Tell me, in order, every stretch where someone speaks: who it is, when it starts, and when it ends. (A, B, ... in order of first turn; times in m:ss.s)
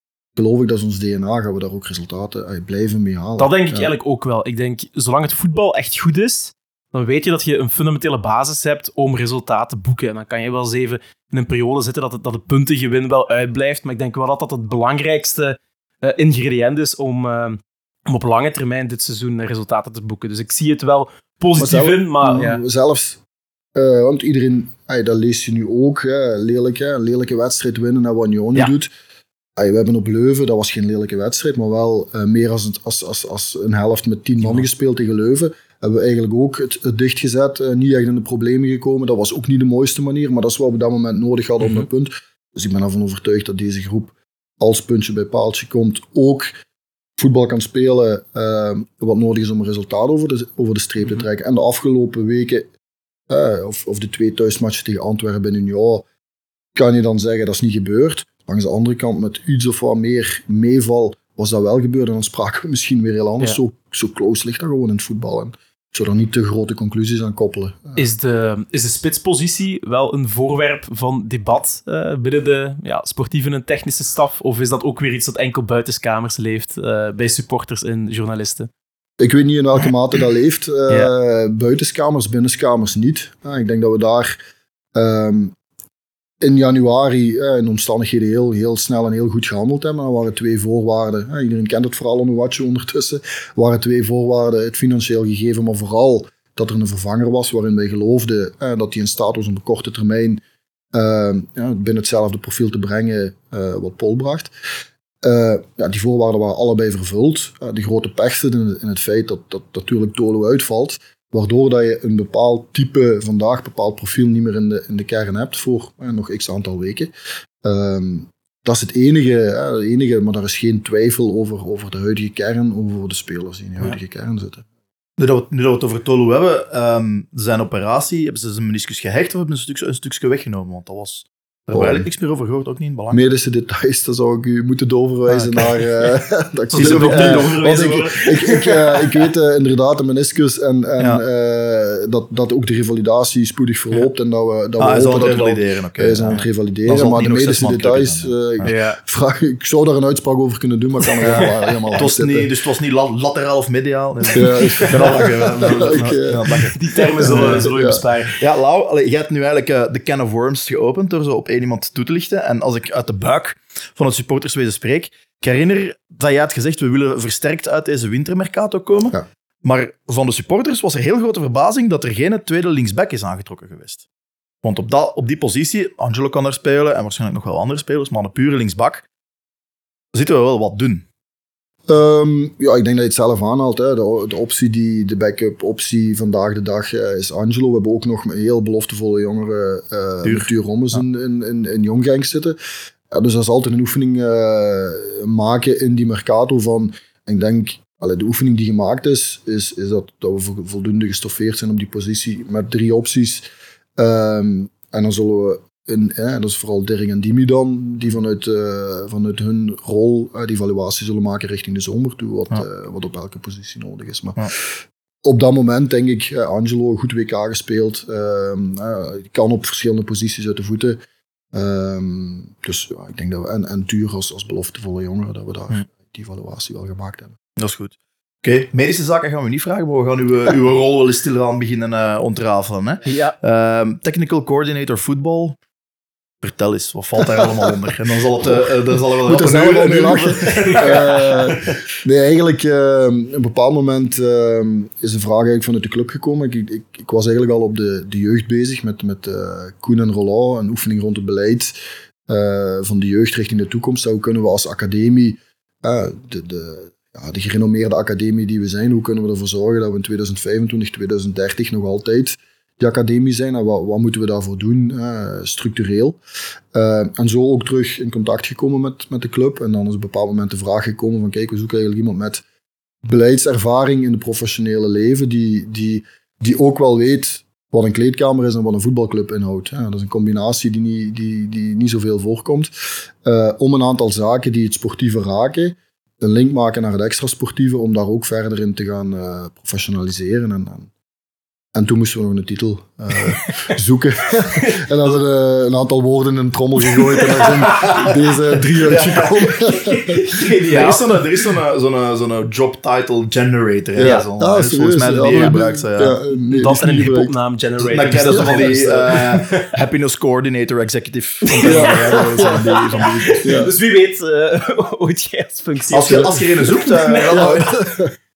0:00.4-0:03.9 A
0:03.4-0:22.6 B
0:21.6-0:23.2 A
0:23.8-0:28.9 A
0:29.6-0:46.5 A
0:47.2-0:52.7 A
0:53.3-0:56.0 A
0:56.8-1:08.0 A
1:08.0-1:18.7 B
1:19.2-1:24.4 A
1:25.0-1:25.5 A
1:26.4-1:40.4 A
1:40.9-1:44.5 A
1:45.2-1:57.1 A
1:57.6-2:04.6 A
2:05.2-2:13.2 C
2:11.7-2:12.1 A
2:13.1-2:32.5 A
2:16.7-2:17.6 C
2:16.7-2:18.7 B
2:24.8-2:28.8 C
2:28.6-2:29.0 B
2:31.2-2:31.5 B
2:31.2-2:37.7 C
2:34.4-2:36.6 A
2:36.5-2:38.4 B
2:37.2-2:38.0 A
2:38.4-2:54.0 C
2:54.6-2:59.0 C
3:00.1-3:01.0 C
3:01.9-3:12.6 A
3:10.2-3:11.0 C
3:13.1-3:23.4 A
3:24.0-3:41.0 A
3:41.5-3:47.4 A
3:47.6-3:55.6 C
3:53.0-3:53.4 B
3:56.4-4:01.7 C
3:59.2-4:11.7 A
4:12.3-4:26.2 A
4:26.7-4:32.4 A
4:33.0-4:42.7 A
4:43.2-4:50.9 A
4:51.8-5:00.1 A
4:57.8-4:58.1 C
4:58.8-4:59.4 C
4:59.7-5:01.2 B
5:00.6-5:06.2 C
5:04.0-5:07.3 A
5:06.5-5:09.8 B
5:07.8-5:13.5 C
5:11.5-5:17.8 B
5:11.6-5:12.8 A
5:13.4-5:13.7 A
5:15.9-5:17.7 C
5:16.1-5:16.4 A
5:17.3-5:18.1 A